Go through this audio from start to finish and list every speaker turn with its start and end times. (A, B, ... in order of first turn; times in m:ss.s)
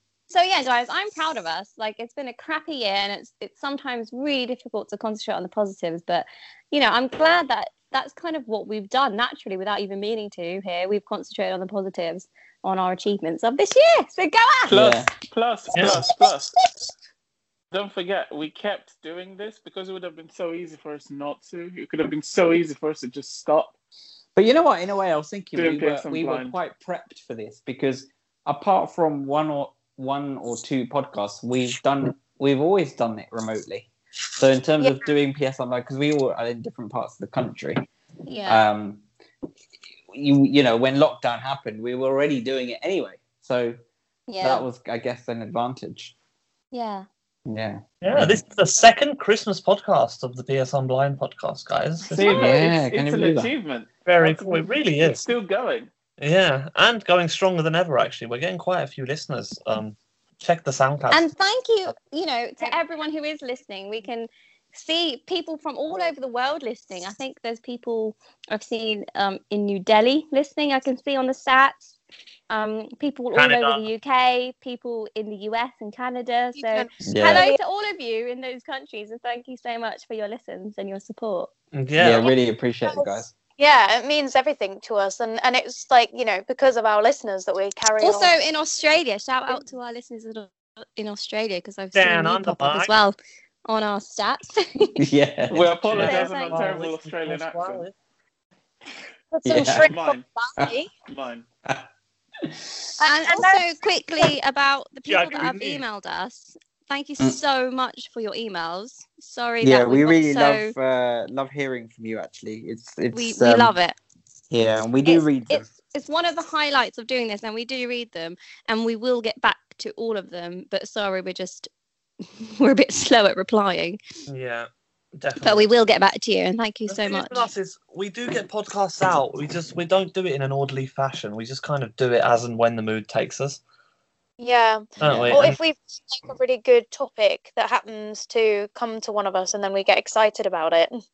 0:00.3-0:14.8 A
0:14.7-0:15.1 B
0:14.7-0:16.5 C
0:15.8-0:16.0 D
0:17.7-0:23.7 C
0:24.4-0:37.9 B
0:25.6-0:26.6 C
0:34.8-0:35.0 E
0:38.3-0:38.6 A
0:38.5-0:39.0 B
0:40.1-0:43.8 B
0:44.3-0:44.7 A
0:44.4-0:46.1 B
0:46.7-0:47.1 A
0:47.5-0:48.4 B
0:48.0-0:52.2 D
0:52.0-0:52.5 A
0:52.1-0:55.9 C
0:52.2-0:53.5 B
0:54.1-0:55.3 D
0:56.2-1:01.3 D
1:01.1-1:11.9 A
1:12.5-1:21.5 A
1:13.3-1:13.9 D
1:16.6-1:17.6 E
1:17.0-1:17.4 B
1:21.7-1:22.3 D
1:22.0-1:23.3 B
1:22.9-1:28.3 E
1:28.0-1:33.2 A
1:31.9-1:32.9 D
1:33.7-1:35.0 A
1:35.0-1:36.1 B
1:35.5-1:37.8 C
1:35.9-1:37.9 D
1:36.0-1:36.6 A
1:39.3-1:40.9 E
1:39.4-1:39.9 B
1:39.6-1:40.2 C
1:41.1-1:41.5 C
1:42.4-1:42.9 B
1:43.0-1:44.3 E
1:43.0-1:50.7 A
1:45.1-1:45.8 D
1:49.6-1:53.7 B
1:53.1-1:54.0 A
1:54.5-1:55.7 B
1:55.0-2:01.7 A
2:02.4-2:04.0 A
2:04.3-2:05.7 D
2:05.4-2:07.5 A
2:06.9-2:13.6 D
2:14.4-2:21.0 E
2:15.0-2:15.6 D
2:15.0-2:15.4 B